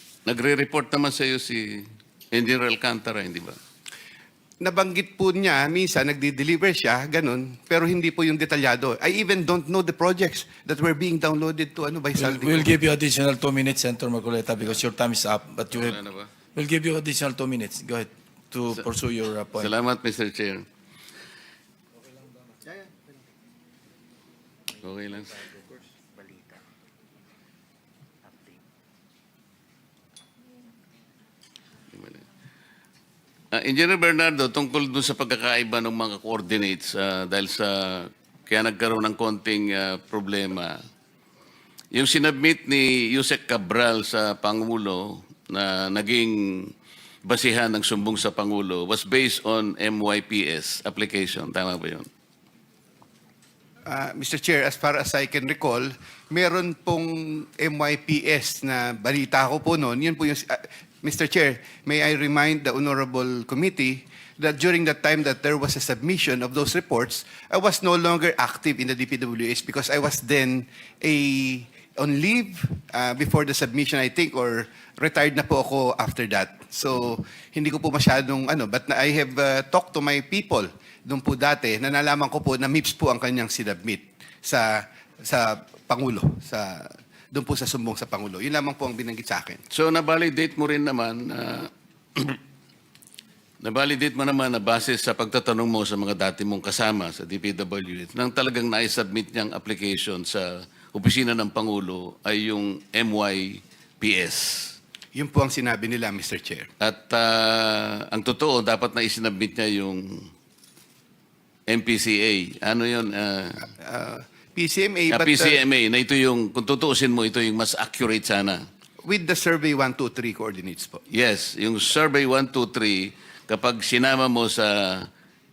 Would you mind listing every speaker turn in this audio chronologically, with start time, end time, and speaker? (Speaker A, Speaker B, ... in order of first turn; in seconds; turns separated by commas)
Speaker A: 0.3-3.6, Speaker B: 4.6-12.8, Speaker C: 12.1-16.0, Speaker A: 15.8-16.3, Speaker C: 16.5-19.7, Speaker A: 19.6-20.7, Speaker A: 24.8-25.5, Speaker A: 31.9-32.2, Speaker A: 33.5-40.8, Speaker A: 41.9-46.7, Speaker A: 47.2-52.1, Speaker B: 53.9-89.6, Speaker A: 89.7-92.4, Speaker A: 93.6-104.8, Speaker B: 105.2-106.7, Speaker A: 106.8-110.3, Speaker A: 111.7-113.7, Speaker B: 113.8-115.6, Speaker A: 115.1-118.7, Speaker B: 119.0-121.0, Speaker A: 121.1-125.1